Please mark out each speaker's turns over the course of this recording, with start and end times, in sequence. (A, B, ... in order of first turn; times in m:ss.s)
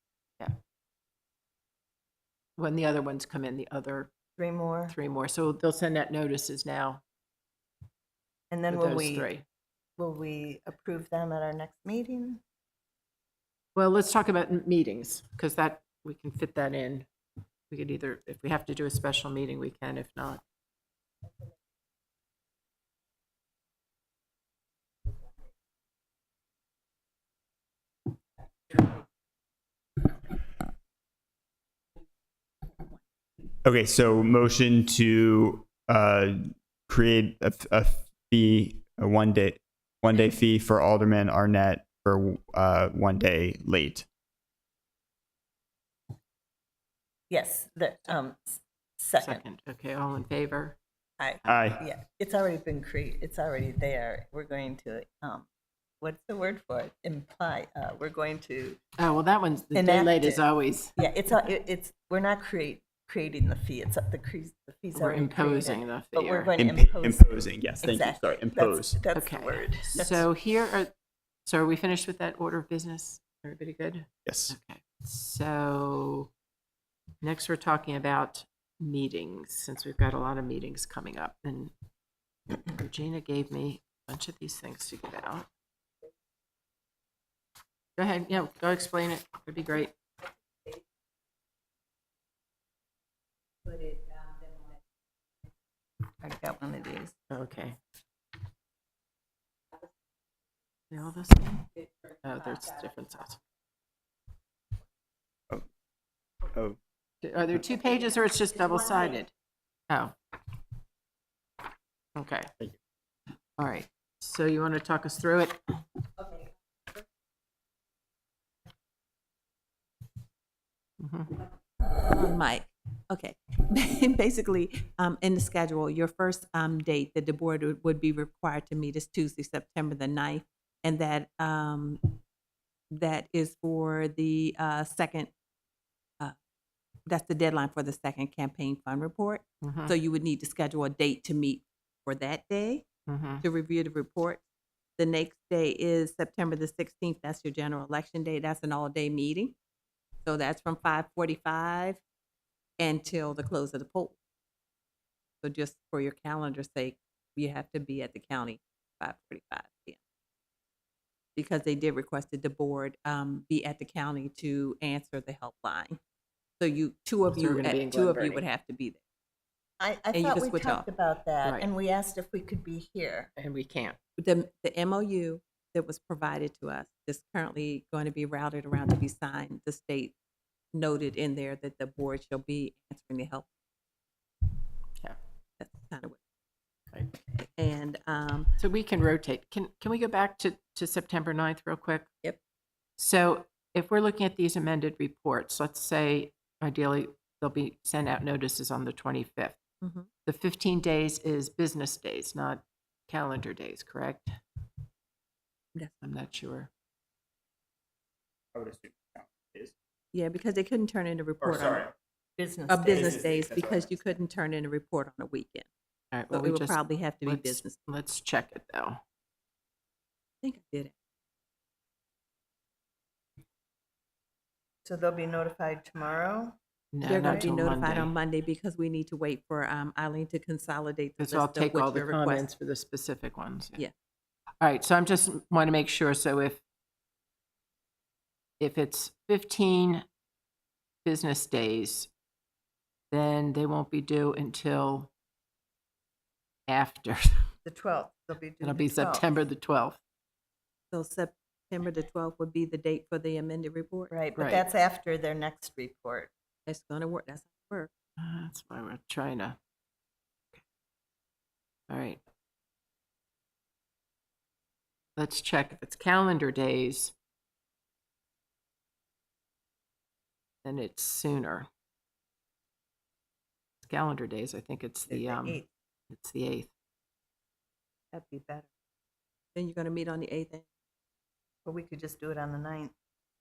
0:02.6-0:04.1 A
0:04.4-0:04.9 B
0:04.9-0:07.0 A
0:08.5-0:09.3 B
0:08.7-0:09.4 A
0:10.0-0:12.4 B
0:13.8-0:17.1 A
0:17.7-0:20.4 A
0:33.6-0:44.0 C
0:47.3-0:49.4 B
0:49.2-0:50.8 A
0:51.2-0:55.4 B
0:51.5-0:51.8 C
0:56.0-0:58.8 B
0:59.0-1:01.0 A
0:59.7-1:00.4 B
1:01.0-1:10.3 B
1:04.9-1:06.5 A
1:06.5-1:09.0 C
1:09.1-1:10.9 A
1:11.4-1:16.3 A
1:14.2-1:14.5 C
1:17.2-1:21.7 A
1:22.5-1:25.5 A
1:28.0-1:29.9 A
1:33.6-1:34.8 D
1:36.2-1:37.1 B
1:37.3-1:37.8 A
1:40.9-1:41.7 A
1:42.2-1:43.4 A
1:46.5-1:46.8 C
1:47.2-1:49.3 A
1:49.9-1:50.1 A
1:52.1-1:52.5 A
1:53.6-1:55.6 A
2:01.0-2:01.4 A
2:01.8-2:12.2 D
2:12.9-2:15.3 D
2:17.0-2:22.8 D
2:19.6-2:19.9 A
2:23.1-2:23.4 A
2:23.4-2:24.4 D
2:25.0-2:29.5 D
2:30.2-2:32.0 D
2:32.8-2:34.2 D
2:35.4-2:40.0 D
2:41.4-2:46.0 D
2:46.6-2:49.0 D
2:47.3-2:48.4 A
2:49.8-2:53.3 B
2:50.1-2:50.8 D
2:51.4-2:51.7 A
2:53.4-2:54.0 A
2:54.2-3:00.1 D
3:00.7-3:03.5 D
3:05.6-3:06.2 D
3:07.4-3:08.5 D
3:08.6-3:12.1 A
3:13.0-3:19.6 A
3:19.8-3:20.1 D
3:20.2-3:24.3 A
3:25.7-3:26.0 D
3:26.0-3:26.7 A
3:28.5-3:29.7 C
3:30.1-3:31.9 D
3:31.4-3:31.9 C
3:32.4-3:33.1 B
3:32.7-3:35.7 D
3:32.8-3:33.9 C
3:36.1-3:39.0 A
3:36.3-3:37.8 D
3:40.4-3:40.9 D
3:44.8-3:47.9 B
3:46.9-3:48.1 A
3:47.0-3:52.5 D
3:51.2-3:53.8 A
3:54.6-3:56.6 A
3:58.6-4:00.0 A
4:01.0-4:02.1 A
4:03.1-4:05.1 A
4:06.7-4:07.5 A
4:07.6-4:09.2 B
4:08.6-4:10.0 A
4:10.9-4:14.1 D
4:14.1-4:16.3 B
4:14.4-4:14.6 A
4:16.6-4:17.9 D
4:18.2-4:19.6 A
4:21.9-4:22.2 A
4:25.2-4:27.1 A
4:30.6-4:31.7 A
4:33.8-4:36.7 A
4:35.1-4:35.7 B
4:38.1-4:38.5 D
4:39.5-4:40.6 D
4:41.6-4:42.9 B